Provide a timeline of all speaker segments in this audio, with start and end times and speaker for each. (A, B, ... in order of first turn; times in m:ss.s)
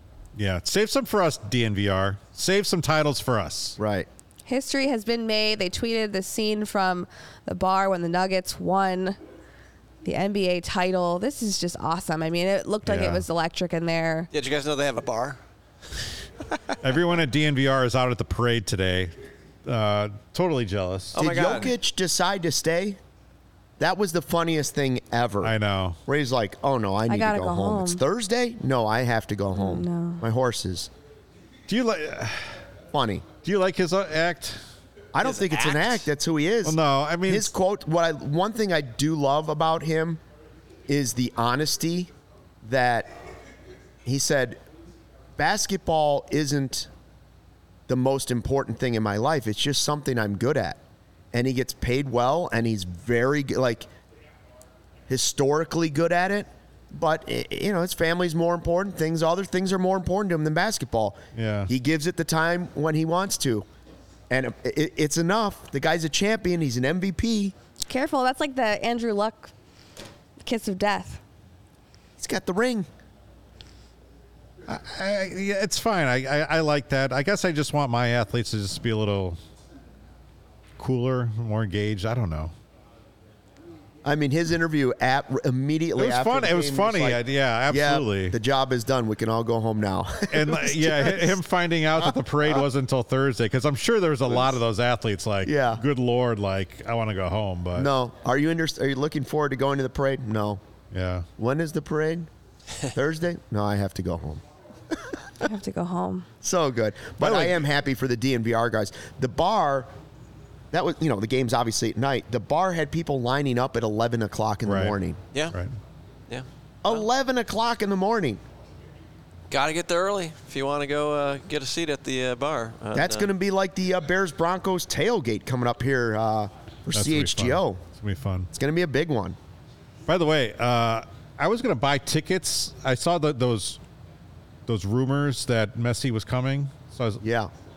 0:00.4-0:03.8 A
0:03.8-0:04.1 B
0:04.4-0:09.2 C
0:10.0-0:14.3 C
0:12.8-0:13.2 A
0:14.3-0:15.4 D
0:16.8-0:19.1 A
0:19.6-0:21.2 A
0:21.1-0:21.7 D
0:21.1-0:23.0 B
0:23.8-0:25.5 B
0:25.4-0:26.0 A
0:26.1-0:30.9 B
0:27.1-0:28.0 C
0:29.5-0:30.2 C
0:31.7-0:32.6 A
0:32.9-0:33.3 B
0:33.4-0:34.6 A
0:35.1-0:40.2 B
0:35.2-0:35.9 D
0:36.6-0:37.5 A
0:40.9-0:42.1 B
0:42.6-0:43.1 B
0:44.0-0:44.6 B
0:45.4-0:46.9 B
0:47.9-0:50.8 B
0:51.3-0:53.9 B
0:55.1-1:03.6 B
1:01.3-1:01.7 A
1:04.3-1:07.5 B
1:07.9-1:09.5 C
1:10.4-1:11.2 C
1:12.2-1:12.9 B
1:14.7-1:19.4 A
1:20.8-1:22.5 A
1:24.0-1:31.4 B
1:26.0-1:28.3 A
1:30.3-1:37.9 A
1:32.0-1:32.6 B
1:34.3-1:34.5 B
1:35.4-1:35.8 B
1:37.7-1:40.6 B
1:40.9-1:41.3 A
1:41.4-1:42.3 B
1:42.9-1:45.2 B
1:45.4-1:46.3 C
1:46.4-1:49.9 B
1:47.2-1:47.6 A
1:50.7-1:55.2 B
1:54.6-1:55.0 A
1:56.3-1:57.0 D
1:56.8-1:58.4 B
1:59.5-2:03.3 D
2:02.9-2:07.8 B
2:06.9-2:08.5 A
2:08.5-2:09.4 B
2:10.1-2:13.8 A
2:14.7-2:17.2 A
2:17.2-2:17.5 B